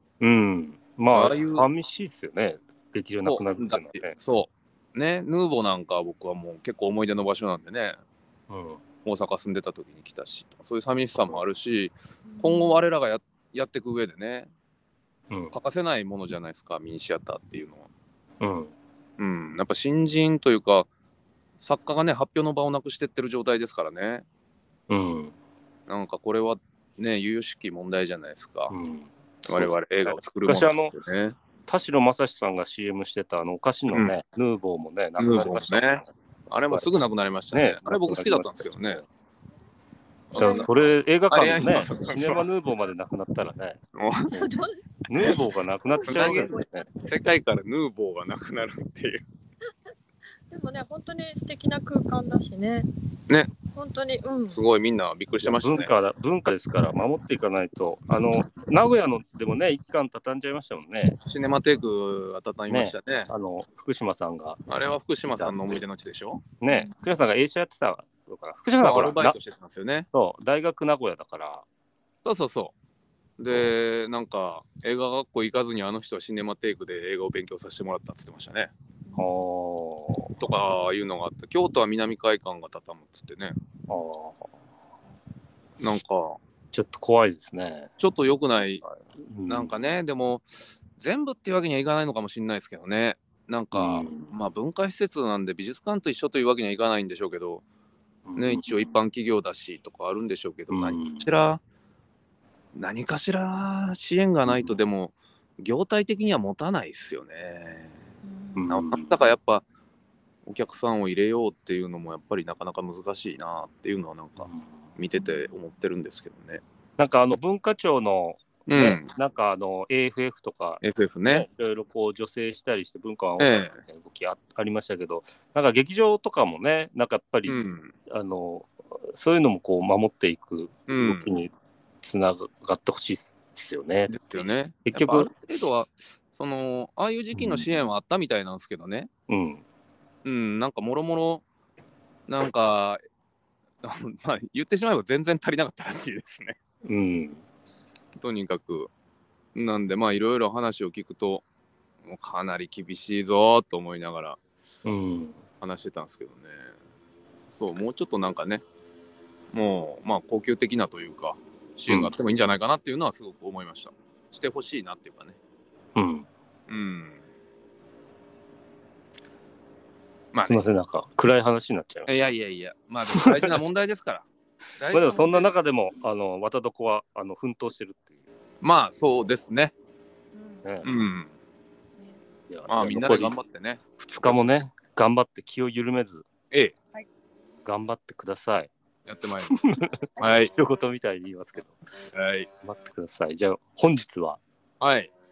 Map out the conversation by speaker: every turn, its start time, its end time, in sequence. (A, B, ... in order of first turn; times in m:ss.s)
0:00.2-0:04.2 A
0:01.1-0:01.7 B
0:03.2-0:08.0 B
0:08.5-0:08.8 A
0:09.0-0:14.5 B
0:12.3-0:12.8 C
0:15.5-0:17.9 B
0:18.4-0:18.7 A
0:19.2-0:20.9 B
0:21.6-0:24.2 B
0:24.9-0:25.3 A
0:25.9-0:28.7 B
0:28.7-0:30.9 A
0:29.4-0:31.4 B
0:31.7-0:36.9 A
0:33.9-0:34.2 B
0:35.2-0:39.0 B
0:37.5-0:39.1 A
0:40.3-0:40.8 B
0:40.3-0:41.0 C
0:40.4-0:43.8 A
0:41.3-0:42.5 B
0:44.0-0:44.4 B
0:44.3-0:47.0 C
0:45.1-0:46.9 A
0:46.0-0:49.2 B
0:50.5-0:52.9 C
0:53.7-0:54.6 C
0:54.5-0:55.9 B
0:55.4-1:01.2 A
1:01.2-1:03.3 B
1:02.7-1:04.6 A
1:04.7-1:06.4 B
1:05.2-1:05.8 A
1:06.6-1:09.4 A
1:06.7-1:07.0 C
1:08.8-1:10.1 B
1:10.1-1:11.6 A
1:12.2-1:12.8 B
1:13.4-1:18.7 B
1:19.1-1:19.4 C
1:19.2-1:20.4 A
1:20.4-1:23.6 B
1:23.9-1:24.6 A
1:25.8-1:26.4 B
1:26.7-1:27.9 A
1:28.0-1:28.8 B
1:28.8-1:29.7 A
1:29.5-1:37.6 B
1:33.7-1:34.3 A
1:38.3-1:38.7 A
1:38.4-1:41.6 B
1:40.7-1:41.3 A
1:42.8-1:48.0 B
1:44.5-1:44.8 A
1:48.2-1:48.7 C
1:48.6-1:49.2 A
1:48.7-1:49.6 B
1:50.4-1:56.6 B
1:54.4-1:55.0 A
1:55.1-1:55.6 C
1:57.0-2:14.2 A
1:58.7-1:59.1 B
2:00.8-2:01.5 B
2:03.4-2:03.8 B
2:07.5-2:07.9 B
2:10.9-2:11.3 B
2:14.1-2:19.1 B
2:14.8-2:15.3 A
2:17.3-2:17.7 A
2:19.3-2:19.6 A
2:20.2-2:21.4 B
2:22.3-2:23.0 B
2:23.8-2:26.6 B
2:26.9-2:27.4 A
2:28.2-2:28.9 B
2:29.5-2:31.4 B
2:32.0-2:34.9 B
2:34.8-2:35.4 A
2:35.6-2:36.7 B
2:37.5-2:38.6 B
2:39.5-2:45.4 B
2:41.9-2:42.1 A
2:46.0-2:46.3 A
2:46.7-2:47.2 B
2:50.3-2:50.6 B
2:50.4-2:52.3 A
2:52.1-2:55.6 B
2:53.1-2:53.6 A
2:54.9-2:58.2 A
2:58.6-2:59.7 B
3:00.3-3:00.8 C
3:00.6-3:01.0 A
3:00.8-3:01.3 B
3:02.0-3:02.2 C
3:02.5-3:03.4 A
3:02.7-3:04.4 B
3:04.0-3:06.2 A
3:07.6-3:08.7 A
3:09.0-3:10.5 B
3:09.5-3:11.8 A
3:12.1-3:12.5 B
3:12.6-3:14.4 A
3:14.8-3:15.1 B